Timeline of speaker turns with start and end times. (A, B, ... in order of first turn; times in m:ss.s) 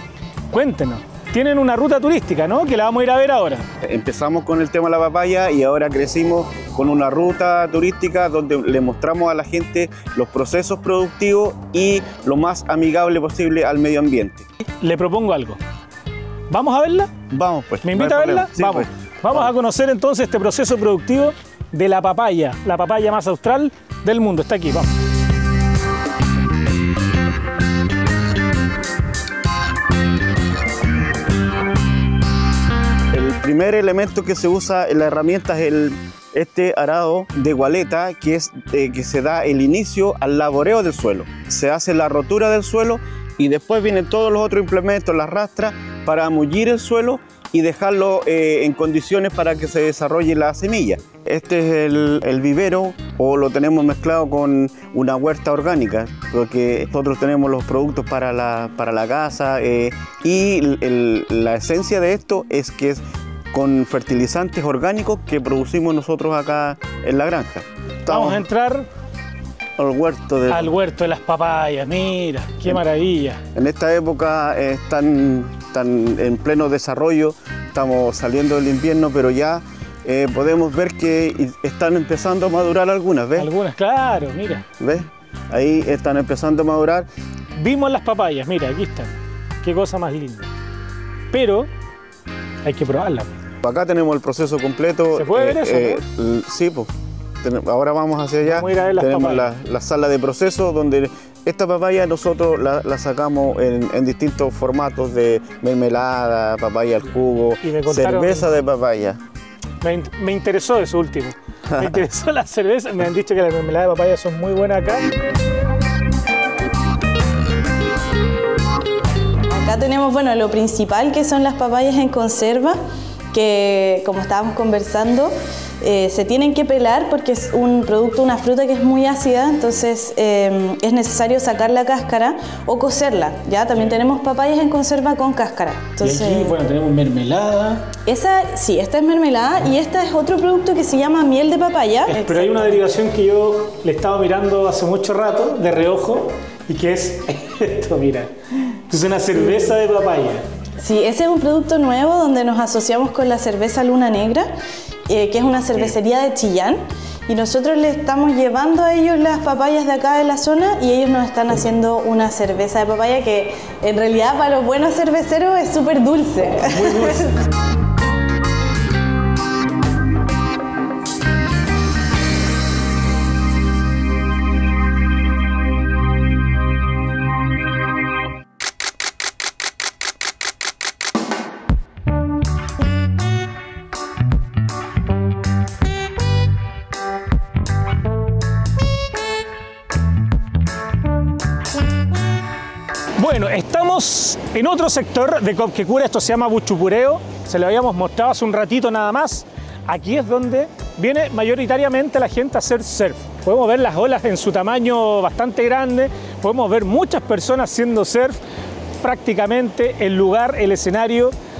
0:00.5-0:03.6 A
0:03.8-0:14.5 B
0:14.7-0:15.6 A
0:16.5-0:17.1 A
0:17.3-0:19.5 B
0:17.8-0:24.9 A
0:33.1-1:08.4 B
1:08.1-1:08.9 A
1:09.8-1:10.7 B
1:10.5-1:13.4 A
1:13.6-1:23.5 B
1:23.4-1:24.7 A
1:24.8-1:27.1 B
1:27.6-1:30.5 A
1:31.3-1:31.7 A
1:32.6-1:33.3 A
1:33.6-1:36.9 B
1:35.2-1:36.0 A
1:37.4-1:49.2 B
1:38.4-1:39.5 A
1:47.6-1:48.5 A
1:49.8-1:55.1 A
1:59.5-2:02.8 C
2:03.3-2:16.6 C
2:16.0-2:17.9 A
2:18.1-2:22.7 C
2:22.1-2:28.3 A
2:28.9-2:30.4 A
2:30.8-2:34.5 C
2:35.1-2:47.4 C
2:46.7-2:47.3 A
3:13.2-3:28.4 A
3:29.0-3:31.3 A